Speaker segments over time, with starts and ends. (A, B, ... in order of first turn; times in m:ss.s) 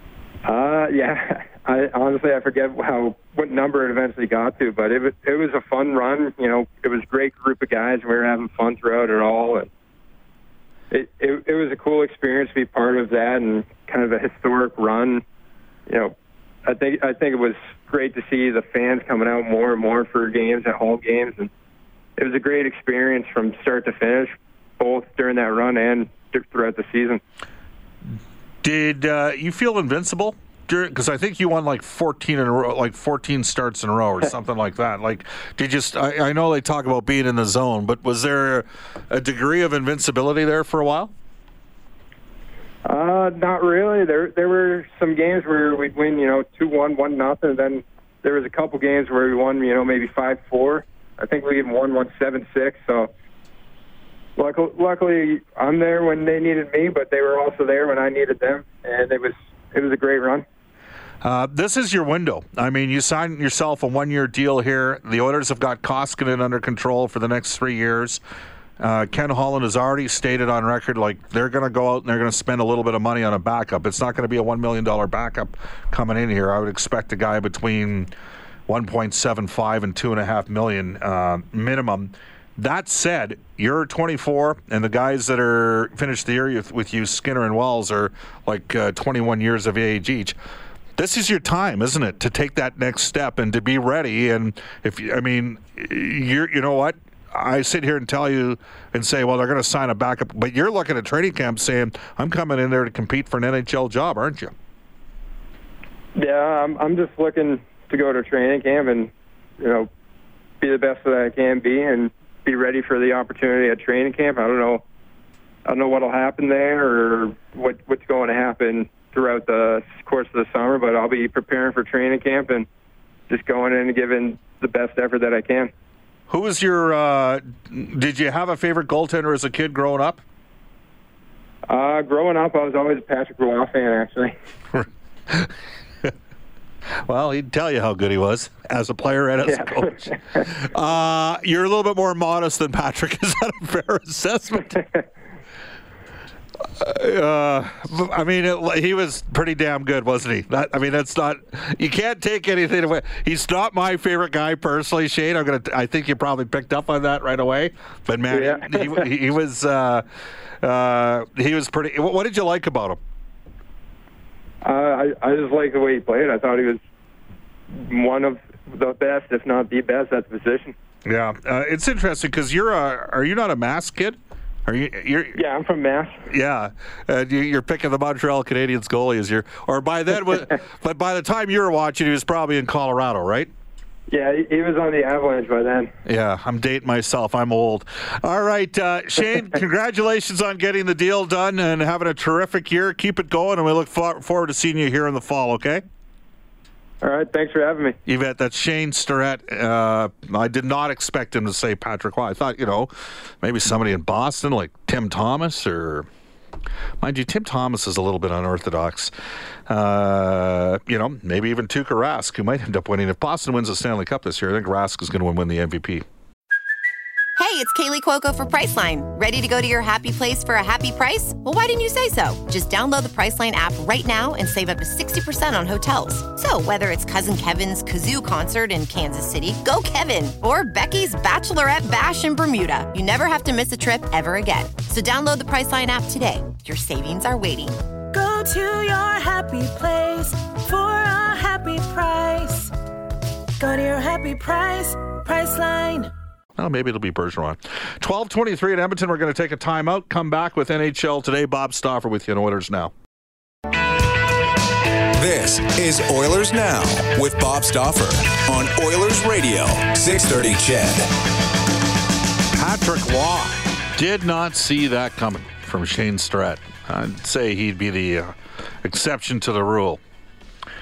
0:00.4-0:09.7 A
0:10.9-0:15.2 A
0:15.9-0:16.1 A
0:16.7-0:21.5 A
0:22.2-0:27.2 A
0:28.6-0:41.1 B
0:42.8-0:53.1 A
0:54.4-1:00.4 A
1:01.2-1:08.2 B
1:08.8-1:18.1 B
1:18.7-1:30.4 B
1:31.0-1:44.5 B
1:46.2-1:49.9 A
1:50.6-1:54.8 A
1:55.6-2:02.6 A
2:03.3-2:05.7 A
2:06.3-2:10.2 B
2:11.7-2:14.3 A
2:14.7-2:15.5 B
2:17.1-2:24.8 B
2:19.5-2:20.1 A
2:26.8-2:40.0 B
2:38.3-2:39.0 A
2:40.6-2:43.0 B
2:44.6-2:46.8 A
2:47.8-2:50.7 A
2:51.0-2:55.4 B
2:55.3-2:56.1 A
2:56.3-3:03.5 B
3:04.1-3:05.9 A
3:06.0-3:15.8 B
3:17.0-3:18.0 A
3:18.0-3:22.9 B
3:23.4-3:26.1 B
3:27.0-3:29.1 B
3:29.7-3:36.0 B
3:37.4-3:57.8 C
3:58.1-4:02.7 D
4:03.6-4:06.1 D
4:06.6-4:12.9 B
4:15.2-4:21.1 E
4:22.5-4:28.3 B
4:28.8-4:30.0 B